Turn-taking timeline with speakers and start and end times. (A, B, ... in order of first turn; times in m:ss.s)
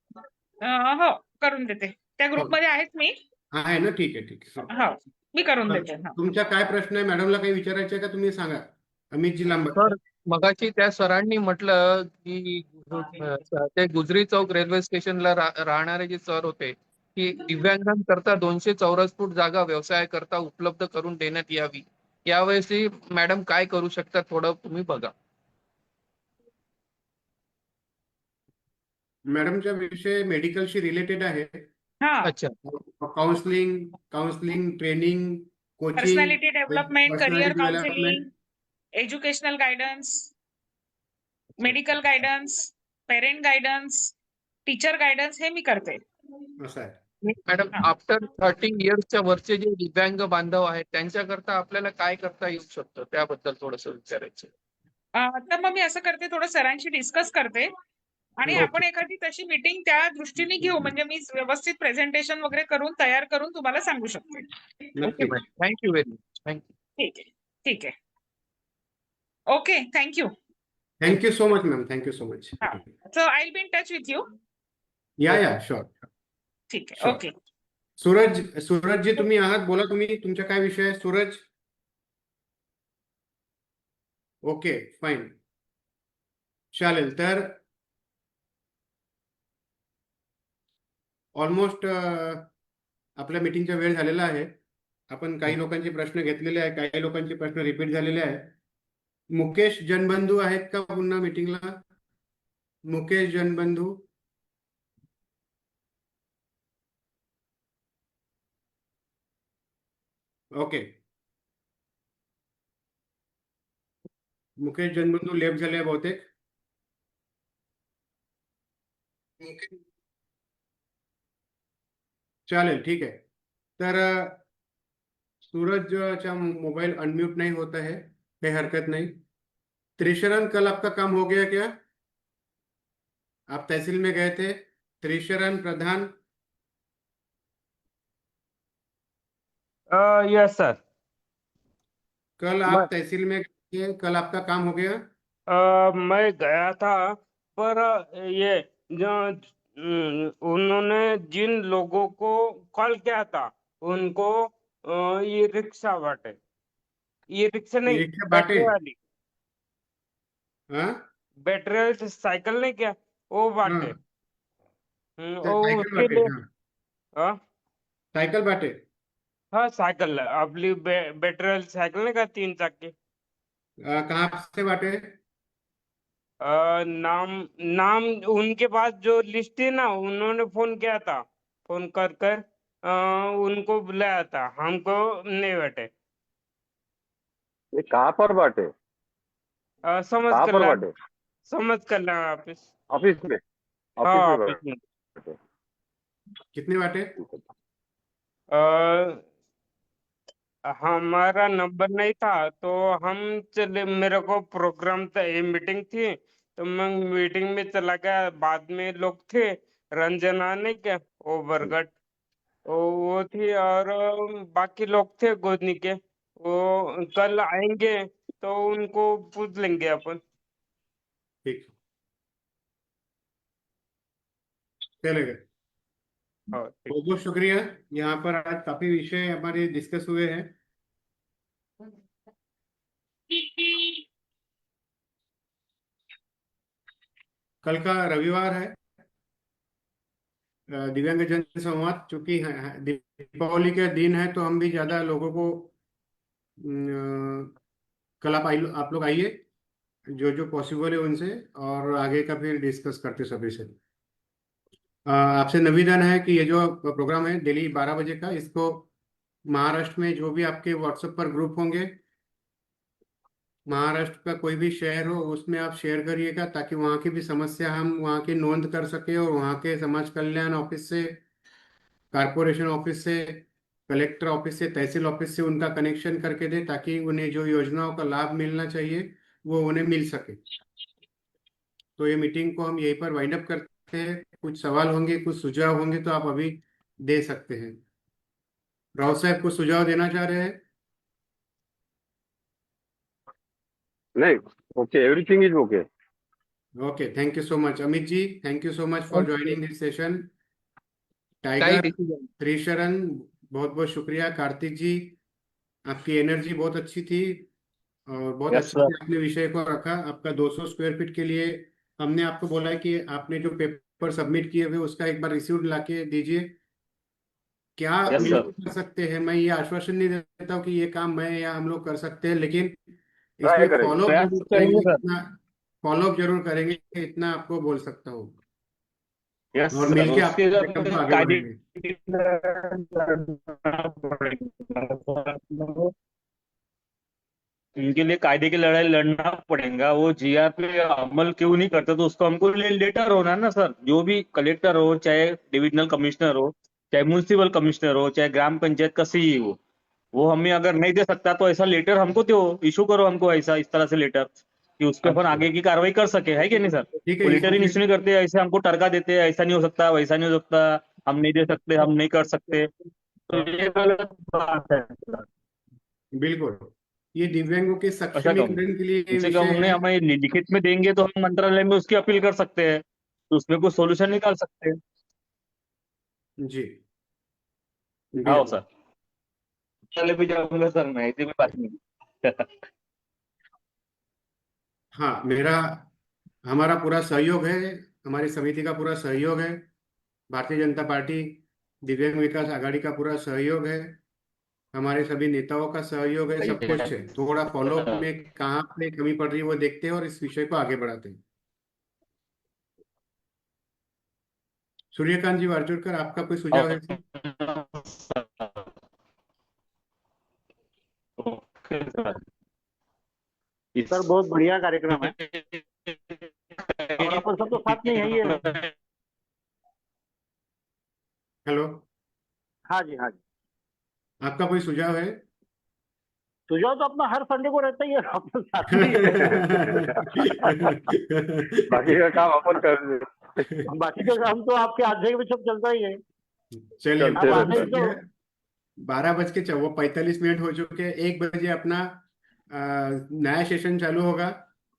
0:00.6-0:03.1 A
0:03.5-0:04.7 B
0:04.7-0:06.1 A
0:05.7-0:09.8 B
0:09.7-0:25.1 C
0:29.3-0:31.6 B
0:32.0-0:32.3 A
0:32.2-0:32.5 C
0:32.6-0:38.2 B
0:36.0-0:38.2 A
0:39.0-0:40.3 A
0:41.6-0:44.1 A
0:44.7-0:46.0 A
0:46.6-0:47.0 B
0:47.2-0:54.5 C
0:55.1-0:57.7 A
0:58.4-1:04.5 A
1:05.0-1:05.4 B
1:05.0-1:06.6 C
1:07.0-1:07.9 A
1:09.5-1:10.3 A
1:11.0-1:12.8 B
1:12.6-1:14.2 A
1:15.2-1:16.0 B
1:16.7-1:17.3 A
1:18.0-1:21.4 B
1:24.4-1:25.4 B
1:26.7-1:27.6 B
1:31.3-1:32.5 B
1:33.2-1:34.6 B
1:35.1-1:38.5 B
1:39.3-1:41.8 B
1:42.9-1:44.0 B
1:50.5-1:51.0 B
1:54.6-1:56.3 B
1:59.4-1:59.8 B
2:02.5-2:03.2 B
2:03.8-2:04.4 B
2:05.4-2:09.2 B
2:10.0-2:11.8 B
2:13.5-2:16.1 B
2:19.9-2:20.8 D
2:22.4-2:25.1 B
2:25.5-2:27.0 D
2:27.6-2:36.4 D
2:37.4-2:38.9 D
2:37.8-2:38.7 B
2:40.7-2:41.0 B
2:41.4-2:43.9 D
2:43.6-2:43.9 B
2:45.2-2:46.3 D
2:45.4-2:46.4 B
2:48.1-2:48.8 B
2:49.5-2:52.9 D
2:53.8-2:55.2 B
2:56.4-3:05.9 D
3:07.7-3:08.7 E
3:09.9-3:10.8 D
3:10.3-3:10.9 E
3:11.5-3:12.6 D
3:12.9-3:13.4 E
3:14.0-3:14.6 E
3:14.0-3:14.8 D
3:16.5-3:17.1 B
3:18.5-3:19.2 D
3:20.8-3:31.9 D
3:32.7-3:40.2 D
3:41.4-3:41.7 B
3:45.0-3:45.4 B
3:46.5-3:47.0 D
3:46.9-3:50.5 B
3:53.4-3:53.8 D
3:57.6-3:58.8 B
4:00.7-4:05.7 B
4:06.6-4:07.5 B
4:08.2-4:09.4 B
4:10.1-4:13.8 B
4:15.1-4:18.9 B
4:19.5-4:22.0 B
4:23.7-4:31.2 B
4:32.1-4:40.4 B
4:42.0-4:47.8 B
4:49.0-4:50.6 B
4:54.2-4:55.8 E
4:56.8-5:00.3 B
4:59.1-4:59.4 C
5:01.4-5:05.2 B
5:01.6-5:02.3 C
5:05.8-5:07.5 B
5:08.1-5:16.5 B
5:08.5-5:08.9 F
5:17.8-5:22.8 B
5:18.1-5:18.5 F
5:23.4-5:28.4 B
5:23.4-5:23.9 E
5:23.9-5:25.0 F
5:29.5-5:35.9 F
5:29.7-5:31.6 B
5:37.8-5:49.6 F
5:50.1-6:02.7 F
5:55.0-5:55.4 B
5:57.1-5:57.8 B
6:03.3-6:05.2 F
6:06.2-6:09.8 B
6:08.2-6:08.6 F
6:09.1-6:14.8 F
6:16.4-6:16.8 B
6:18.1-6:18.5 B
6:18.2-6:18.6 F
6:19.9-6:22.5 F
6:24.9-6:25.9 B
6:26.4-6:29.6 B
6:30.3-6:34.0 B
6:34.7-6:41.2 B
6:36.4-6:36.9 F
6:37.8-6:38.0 F
6:44.9-6:47.0 B
6:46.5-6:48.7 F
6:51.2-6:52.2 F
6:53.7-6:54.0 F
6:53.9-6:55.1 G
6:54.9-6:58.7 F
6:57.0-6:58.5 G
7:01.4-7:01.8 B
7:02.7-7:03.2 G
7:04.2-7:05.2 B
7:06.5-7:09.6 G
7:08.7-7:11.9 B
7:09.4-7:10.8 E
7:11.7-7:13.6 E
7:13.7-7:16.0 G
7:16.8-7:18.0 B
7:17.0-7:17.7 E
7:17.1-7:17.9 G
7:18.8-7:24.4 B